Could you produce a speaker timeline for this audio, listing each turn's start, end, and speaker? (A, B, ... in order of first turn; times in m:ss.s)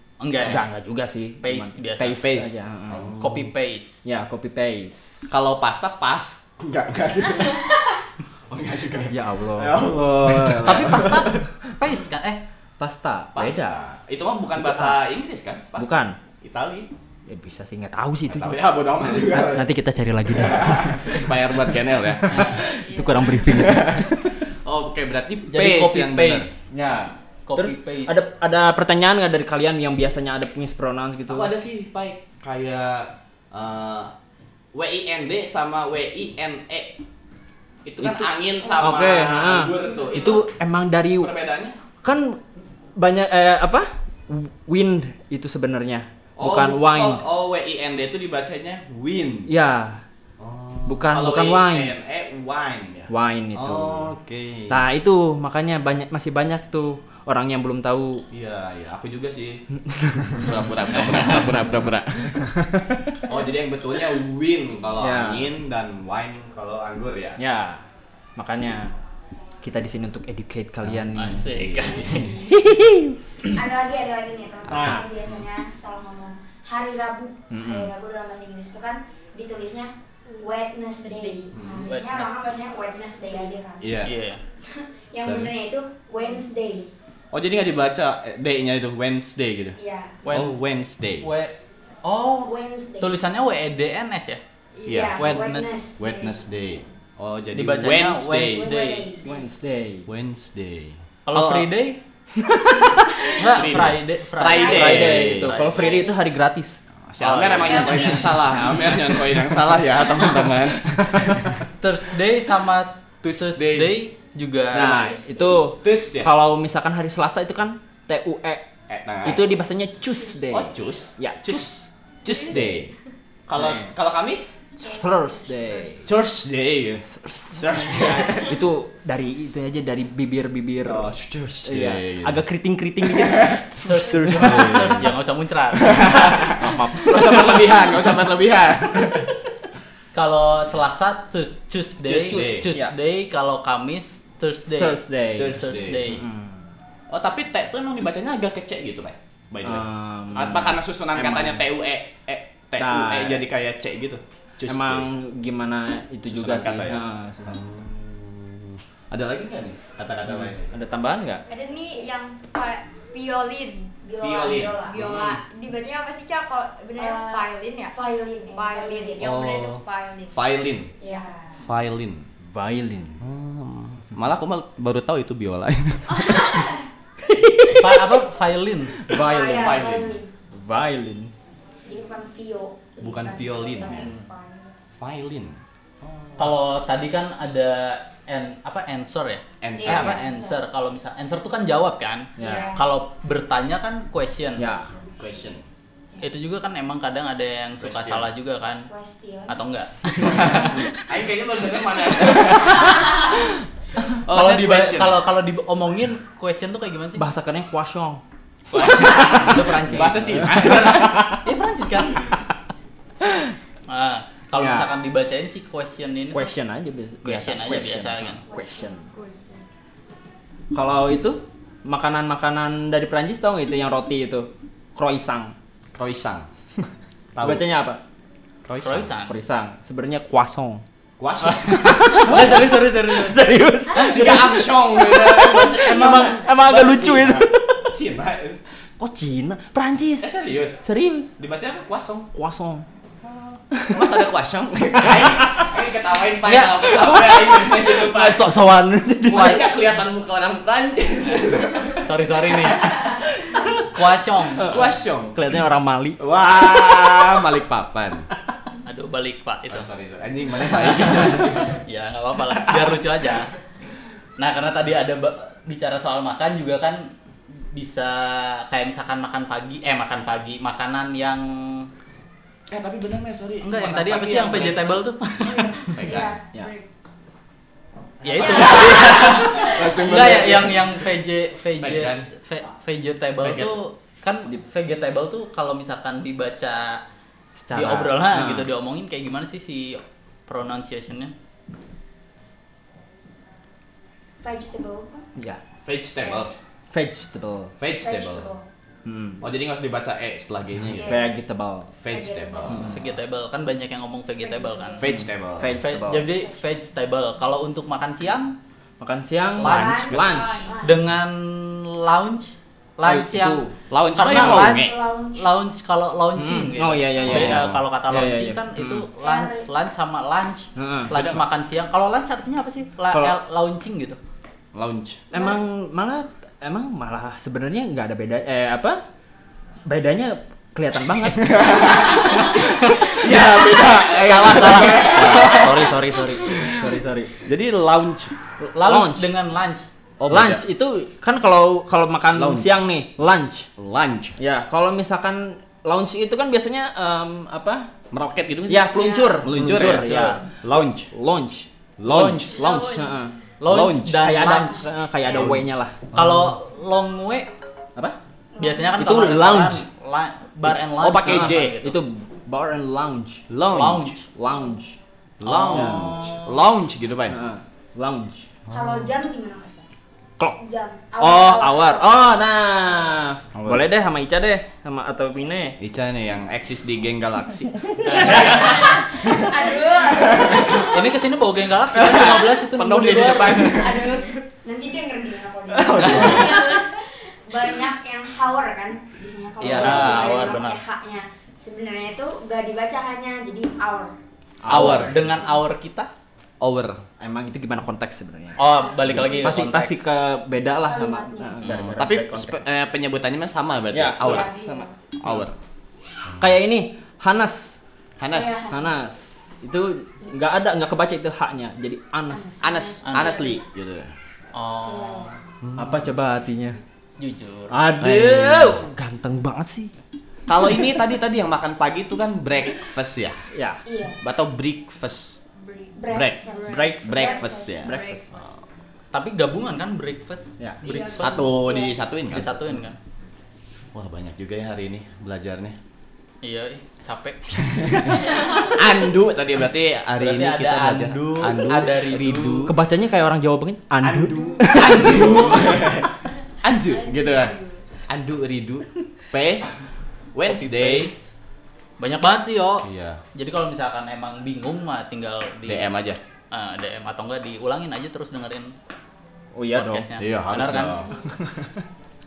0:00.2-0:00.6 A
0:00.4-0:03.1 B
0:01.4-0:02.2 A
0:02.2-0:03.5 C
0:03.2-0:03.9 A
0:04.0-0:05.2 B
0:05.3-0:07.7 C
0:08.5-0:11.4 C
0:09.1-0:10.9 B
0:10.6-0:12.4 A
0:12.8-0:13.8 B
0:13.3-0:16.9 C
0:14.6-0:15.0 B
0:15.8-0:16.2 B
0:17.3-0:18.6 B
0:18.2-0:19.7 C
0:19.3-0:21.3 B
0:20.3-0:22.6 C
0:21.9-0:24.4 B
0:22.3-0:22.7 A
0:22.8-0:23.2 D
0:23.5-0:26.5 C
0:25.5-0:26.6 A
0:26.7-0:31.5 B
0:27.5-0:28.2 A
0:31.3-0:34.1 C
0:34.7-0:37.0 C
0:37.8-0:40.4 C
0:38.0-0:41.3 B
0:41.2-0:41.8 C
0:42.0-0:42.4 B
0:43.0-0:47.2 B
0:46.4-0:49.5 C
0:49.5-0:50.0 B
0:50.4-0:54.8 C
0:50.8-0:51.9 B
0:53.1-0:54.1 B
0:54.7-0:58.2 B
0:58.3-0:59.6 C
0:59.9-1:00.6 B
1:00.3-1:02.4 C
1:01.1-1:01.5 A
1:02.3-1:03.0 B
1:03.2-1:07.4 C
1:05.0-1:05.5 B
1:07.4-1:07.8 B
1:08.4-1:08.9 B
1:09.6-1:11.5 B
1:10.8-1:12.4 C
1:11.1-1:12.4 A
1:12.0-1:12.5 E
1:12.4-1:13.1 B
1:13.5-1:24.1 E
1:14.7-1:15.1 B
1:17.5-1:17.9 B
1:21.0-1:21.5 D
1:21.5-1:21.8 C
1:21.8-1:22.4 A
1:23.8-1:24.1 C
1:24.0-1:24.4 A
1:24.6-1:26.9 E
1:25.2-1:25.5 C
1:27.3-1:29.8 C
1:29.8-1:30.2 E
1:30.2-1:30.6 A
1:30.3-1:31.3 C
1:31.2-1:34.4 A
1:32.4-1:33.1 E
1:34.8-1:35.0 D
1:34.8-1:36.2 E
1:34.8-1:35.4 C
1:35.1-1:35.8 A
1:36.0-1:38.9 C
1:37.5-1:39.2 A
1:38.5-1:39.2 E
1:39.2-1:40.1 B
1:40.1-1:41.7 C
1:41.2-1:42.0 A
1:42.4-1:43.2 B
1:43.3-1:46.1 A
1:43.5-1:45.6 C
1:44.4-1:46.1 E
1:44.6-1:46.8 B
1:47.1-1:51.6 C
1:47.2-1:48.5 A
1:50.1-1:50.5 B
1:51.0-1:51.5 B
1:51.8-1:55.1 A
1:53.2-1:54.0 C
1:54.7-1:58.6 B
1:54.8-1:55.2 C
1:55.8-1:56.3 C
1:58.9-1:59.5 C
1:59.2-2:01.9 B
2:00.5-2:02.9 C
2:02.3-2:02.6 D
2:03.5-2:04.5 C
2:03.6-2:03.8 B
2:04.8-2:05.6 E
2:04.8-2:06.0 D
2:05.0-2:06.0 B
2:06.0-2:07.0 C
2:07.2-2:11.1 B
2:07.6-2:08.6 C
2:10.8-2:12.4 C
2:11.6-2:14.7 B
2:13.0-2:15.1 C
2:13.8-2:16.4 A
2:15.8-2:19.3 C
2:16.4-2:17.5 B
2:20.1-2:25.0 A
2:22.0-2:22.7 C
2:22.3-2:22.9 B
2:24.7-2:26.7 B
2:25.4-2:26.2 C
2:25.5-2:26.2 A
2:27.1-2:35.1 C
2:29.6-2:31.7 B
2:32.8-2:33.4 B
2:34.7-2:37.6 B
2:36.3-2:40.7 C
2:40.3-2:41.4 B
2:41.5-2:43.9 D
2:44.0-2:45.0 E
2:44.2-2:45.4 C
2:44.8-2:48.0 D
2:47.0-2:49.3 E
2:48.5-2:50.4 D
2:49.2-2:50.9 C
2:51.0-2:51.6 E
2:51.0-2:51.3 D
2:51.6-2:52.2 C
2:52.5-2:53.2 B
2:53.2-2:56.7 C
2:56.2-2:56.7 D
2:57.8-2:58.9 A
2:59.0-2:59.9 B
2:59.1-3:00.3 E
2:59.5-3:00.2 C
3:00.5-3:01.3 B
3:01.8-3:04.4 E
3:03.0-3:04.1 C
3:03.5-3:04.7 D
3:05.0-3:06.6 C
3:06.4-3:14.7 A
3:09.6-3:10.2 C
3:09.8-3:10.6 E
3:12.4-3:12.7 B
3:12.4-3:12.8 E
3:14.6-3:14.9 B
3:15.2-3:15.6 C
3:16.2-3:18.9 A
3:17.8-3:18.3 C
3:18.9-3:19.6 E
3:19.5-3:20.7 A
3:20.2-3:23.1 C
3:22.4-3:23.3 B
3:24.2-3:25.2 C
3:24.3-3:27.2 A
3:27.2-3:28.2 B
3:28.7-3:32.3 A
3:28.9-3:31.2 C
3:29.1-3:31.4 B
3:33.9-3:36.5 A
3:34.5-3:34.9 B
3:36.3-3:39.0 B
3:37.2-3:38.4 A
3:38.5-3:39.6 D
3:40.7-3:45.5 B
3:45.9-3:46.5 C
3:47.3-3:47.6 C
3:47.4-3:48.0 B
3:48.6-3:49.1 C
3:48.8-3:49.3 A
3:49.3-3:50.8 B
3:51.2-3:52.6 C
3:51.4-3:53.4 A
3:51.7-3:57.8 B
3:53.9-3:58.6 C
3:56.0-3:56.3 A
3:59.0-4:00.3 B
4:00.2-4:00.8 C
4:00.8-4:01.3 B
4:01.4-4:02.3 C
4:02.3-4:02.8 B
4:03.7-4:04.2 B
4:03.9-4:08.5 C
4:05.0-4:05.7 B
4:06.8-4:09.7 B
4:09.3-4:12.1 C
4:12.0-4:13.0 A
4:13.9-4:14.9 A
4:14.7-4:15.4 C
4:15.3-4:16.2 B
4:16.2-4:18.3 C
4:18.8-4:19.9 A
4:19.7-4:21.8 C
4:20.6-4:23.5 A
4:22.5-4:23.0 C
4:24.4-4:27.1 A
4:27.7-4:31.9 A
4:32.7-4:35.0 C
4:33.6-4:35.9 A
4:35.4-4:35.8 D
4:35.8-4:36.7 C
4:36.0-4:36.4 E
4:36.6-4:36.8 D
4:38.2-4:41.0 C
4:38.2-4:47.0 A
4:38.4-4:39.6 D
4:41.8-4:42.3 C
4:43.4-4:43.8 C
4:47.5-4:48.7 B
4:47.7-4:51.3 A
4:54.4-4:55.2 E
4:55.8-4:56.5 C
4:56.2-4:56.5 E
4:56.9-4:57.7 B
4:57.8-4:58.5 C
4:58.0-4:58.6 E
4:59.0-4:59.4 B
4:59.4-5:01.2 C
5:01.0-5:01.3 E
5:01.0-5:01.9 B
5:02.0-5:03.0 C
5:02.1-5:02.9 E
5:02.7-5:03.0 B
5:02.9-5:05.0 A
5:04.4-5:05.0 E
5:05.0-5:05.8 C
5:05.1-5:06.3 B
5:05.8-5:08.5 A
5:06.1-5:06.6 E
5:09.0-5:10.6 B
5:09.6-5:10.0 A
5:09.6-5:10.4 C
5:09.6-5:11.0 E
5:10.3-5:10.8 D
5:10.8-5:13.6 A
5:13.0-5:13.7 B
5:13.9-5:15.0 C
5:14.2-5:24.2 A
5:14.3-5:15.5 E
5:16.3-5:19.1 B
5:17.2-5:17.8 C
5:19.2-5:19.7 E
5:20.8-5:21.1 B
5:21.1-5:21.4 C
5:23.1-5:23.4 B
5:24.7-5:25.2 C
5:25.3-5:29.0 B
5:29.8-5:37.3 B
5:31.4-5:32.5 C
5:33.2-5:35.9 C
5:36.5-5:36.9 C
5:37.4-5:38.3 C
5:38.7-5:39.8 A
5:38.8-5:39.3 B
5:40.2-5:40.6 C
5:40.3-5:43.7 B
5:42.3-5:42.7 C
5:43.8-5:44.4 C
5:44.4-5:47.8 B
5:48.1-5:50.1 C
5:48.7-5:51.7 B
5:48.9-5:49.4 D
5:49.6-5:50.4 A
5:50.6-5:51.1 C
5:52.0-5:52.6 C
5:52.0-5:52.6 A
5:52.5-5:53.3 B
5:52.6-5:53.2 D
5:53.6-5:54.8 A
5:53.6-5:54.4 C
5:54.2-5:56.0 B
5:54.4-5:55.6 E
5:55.3-5:56.5 C
5:56.1-5:57.5 A
5:58.5-5:59.3 E
5:58.6-6:02.0 A
5:59.0-5:59.8 B
6:00.7-6:01.8 C
6:01.2-6:03.4 B
6:03.5-6:04.2 C
6:03.7-6:04.2 A
6:04.4-6:05.0 B
6:05.4-6:07.4 C
6:05.4-6:06.6 A
6:07.3-6:08.4 B
6:08.6-6:09.1 C
6:08.7-6:09.9 E
6:10.5-6:12.2 E
6:11.2-6:15.8 B
6:13.5-6:13.8 C
6:15.8-6:19.5 C
6:18.0-6:21.1 E
6:18.0-6:19.0 A
6:20.3-6:20.8 C
6:20.6-6:23.9 A
6:21.9-6:24.3 C
6:23.4-6:34.1 E
6:25.7-6:26.8 C
6:26.0-6:26.3 A
6:29.6-6:30.6 C
6:29.6-6:30.8 A
6:34.6-6:35.3 B
6:34.7-6:35.2 C
6:34.7-6:36.1 A
6:35.2-6:35.6 E
6:36.6-6:37.0 C
6:37.2-6:38.6 B
6:38.6-6:40.1 A
6:38.7-6:39.6 E
6:39.0-6:39.4 C
6:39.3-6:42.6 B
6:40.8-6:41.8 E
6:41.6-6:44.5 C
6:43.9-6:45.4 B
6:44.2-6:44.9 E
6:45.2-6:45.5 C
6:46.4-6:47.8 B
6:48.2-6:48.6 C
6:48.3-6:49.0 E
6:48.7-6:52.7 B
6:52.3-6:53.6 E
6:52.6-6:54.1 C
6:53.0-6:53.4 A
6:54.5-6:55.3 A
6:54.8-6:55.4 E
6:55.6-6:56.1 C
6:55.8-6:56.8 B
6:57.2-6:57.7 A
6:57.7-6:59.9 B
6:58.0-6:58.8 C
7:00.5-7:03.4 C
7:03.5-7:03.8 B
7:03.8-7:04.2 E
7:04.2-7:05.4 C
7:05.6-7:08.2 D
7:05.9-7:07.9 E
7:06.1-7:08.4 C
7:06.7-7:08.2 B
7:09.1-7:11.4 A
7:10.8-7:11.9 E
7:11.2-7:12.8 C
7:12.3-7:13.0 A
7:13.9-7:15.8 C
7:16.4-7:17.4 A
7:17.6-7:22.7 C
7:18.3-7:18.6 D
7:20.2-7:22.7 A
7:22.7-7:25.4 B
7:24.0-7:26.1 C
7:24.7-7:25.6 A
7:26.6-7:27.6 C
7:26.8-7:27.8 D
7:28.1-7:29.8 C
7:30.3-7:31.1 C
7:30.4-7:31.2 A
7:32.0-7:35.9 A
7:32.8-7:33.2 C
7:35.6-7:36.2 C
7:36.5-7:38.7 A
7:39.5-7:40.1 B
7:39.6-7:41.0 A
7:40.2-7:41.1 C